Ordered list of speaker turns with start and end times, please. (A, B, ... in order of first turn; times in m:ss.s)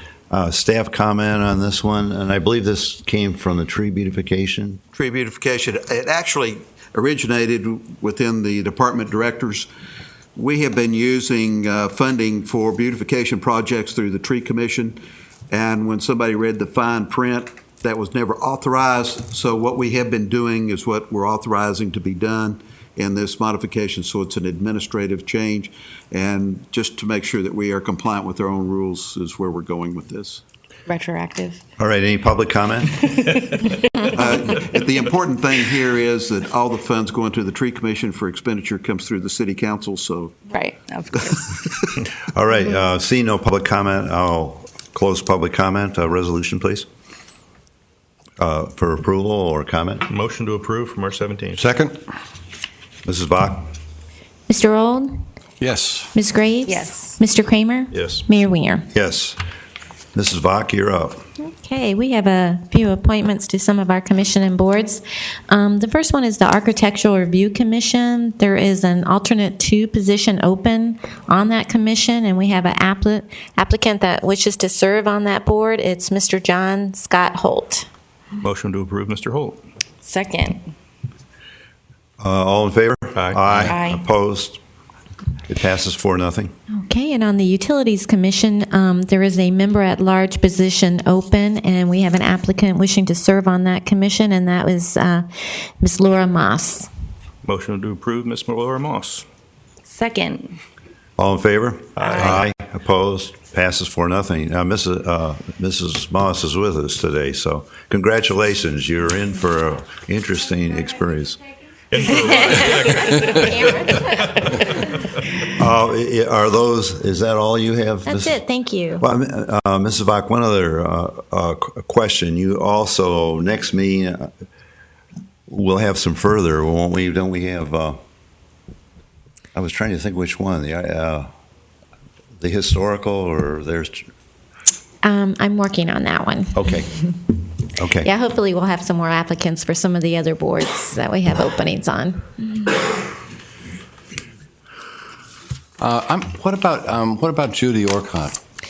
0:00.3-0:04.8 A
0:04.9-0:09.7 B
0:10.3-0:15.0 B
0:15.5-0:30.4 B
0:30.9-0:31.6 C
0:31.8-0:33.4 A
0:34.0-0:40.4 B
0:40.5-0:41.5 C
0:42.3-0:46.8 A
0:48.4-0:50.0 A
0:50.1-0:51.6 D
0:51.5-0:52.0 E
0:53.0-0:53.7 A
0:54.5-0:55.2 F
0:55.6-0:56.1 E
0:56.1-0:58.9 F
0:56.7-0:57.2 C
0:57.9-0:58.2 D
0:58.9-0:59.4 A
1:00.1-1:01.2 A
1:01.4-1:17.9 F
1:18.4-1:19.6 D
1:20.0-1:20.6 C
1:22.2-1:24.6 A
1:23.2-1:23.7 D
1:23.6-1:24.0 C
1:25.5-1:26.5 A
1:26.7-1:36.9 F
1:37.4-1:39.2 D
1:39.9-1:40.6 C
1:41.2-1:51.4 A
1:42.0-1:42.4 D
1:51.9-1:54.5 D
1:55.5-1:58.4 A
1:58.1-1:59.0 F
1:59.0-2:04.3 A
2:05.5-2:08.0 A
2:09.5-2:11.3 A
2:12.4-2:14.1 A
2:15.0-2:16.6 F
2:16.5-2:16.9 A
2:17.8-2:18.1 A
2:18.0-2:22.8 F
2:25.8-2:28.4 E